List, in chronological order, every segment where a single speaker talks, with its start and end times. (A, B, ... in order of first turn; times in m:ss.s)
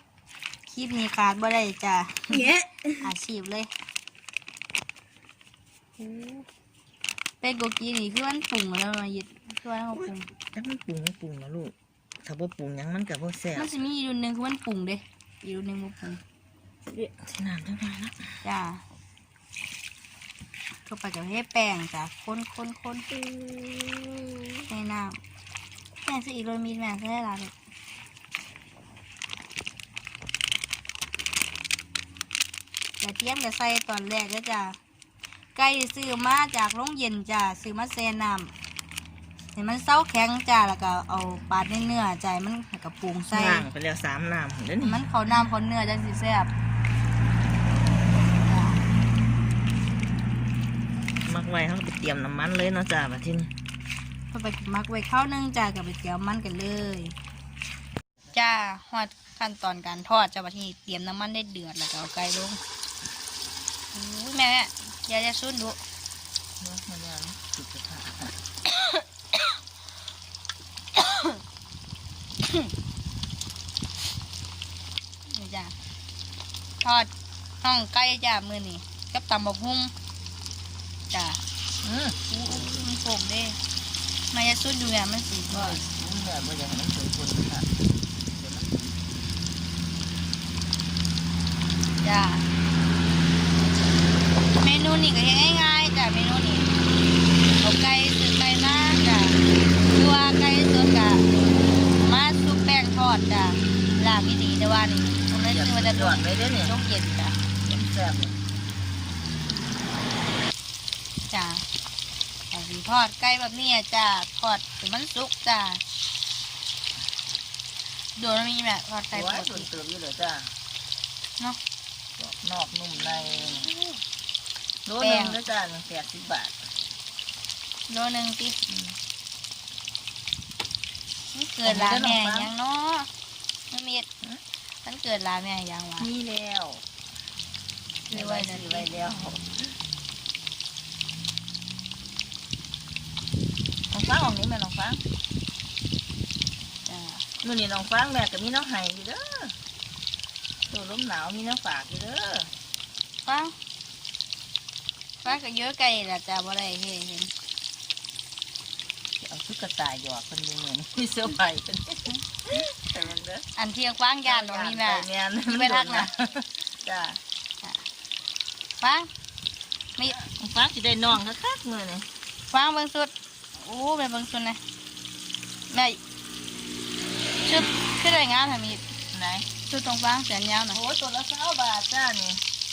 0:00.7-0:02.5 A
0:02.3-0:03.1 B
0:03.0-0:03.7 A
0:06.0-0:06.5 A
0:07.4-0:10.3 A
0:10.5-0:11.7 B
0:12.2-0:13.7 B
0:13.5-0:16.2 A
0:16.9-0:18.2 B
0:18.4-0:18.8 A
0:20.9-0:23.1 A
0:23.1-0:24.6 B
0:24.7-0:25.2 A
0:26.0-0:27.5 A
0:33.0-0:34.8 A
0:35.6-0:38.5 A
0:39.6-0:43.7 A
0:43.3-0:45.0 B
0:44.8-0:46.5 A
0:48.5-0:48.8 A
0:51.2-0:53.5 B
0:54.3-0:57.1 A
0:58.3-1:02.6 A
1:03.9-1:05.8 A
1:06.6-1:08.4 B
1:11.0-1:11.4 A
1:15.3-1:15.7 A
1:16.8-1:17.1 A
1:17.6-1:19.9 A
1:21.1-1:21.4 A
1:21.8-1:22.8 B
1:22.3-1:23.6 A
1:24.3-1:25.8 A
1:25.5-1:29.0 B
1:32.0-1:32.5 A
1:34.6-1:36.7 A
1:37.6-1:41.3 A
1:41.9-1:47.4 A
1:45.5-1:46.8 B
1:47.6-1:48.4 B
1:51.3-1:51.6 A
1:52.5-1:55.8 A
1:58.2-1:59.7 A
1:59.1-2:00.5 B
2:02.2-2:03.7 B
2:04.9-2:06.5 B
2:05.0-2:05.4 A
2:07.9-2:08.6 A
2:08.7-2:09.0 B
2:11.3-2:13.1 A
2:11.6-2:12.5 B
2:13.7-2:14.1 A
2:14.8-2:16.1 A
2:16.0-2:16.8 B
2:18.1-2:18.9 A
2:18.1-2:19.6 B
2:23.9-2:25.0 B
2:26.9-2:27.2 A
2:27.4-2:29.6 B
2:30.7-2:32.5 B
2:33.2-2:33.6 A
2:35.2-2:37.3 A
2:39.2-2:43.5 B
2:43.6-2:46.1 A
2:44.2-2:47.2 B
2:48.8-2:49.1 A
2:50.0-2:50.2 A
2:50.3-2:52.1 B
2:52.5-2:54.6 A
2:55.7-2:56.0 A
2:57.4-2:58.8 A
2:59.1-2:59.5 B
2:59.7-3:00.8 A
3:00.7-3:02.4 B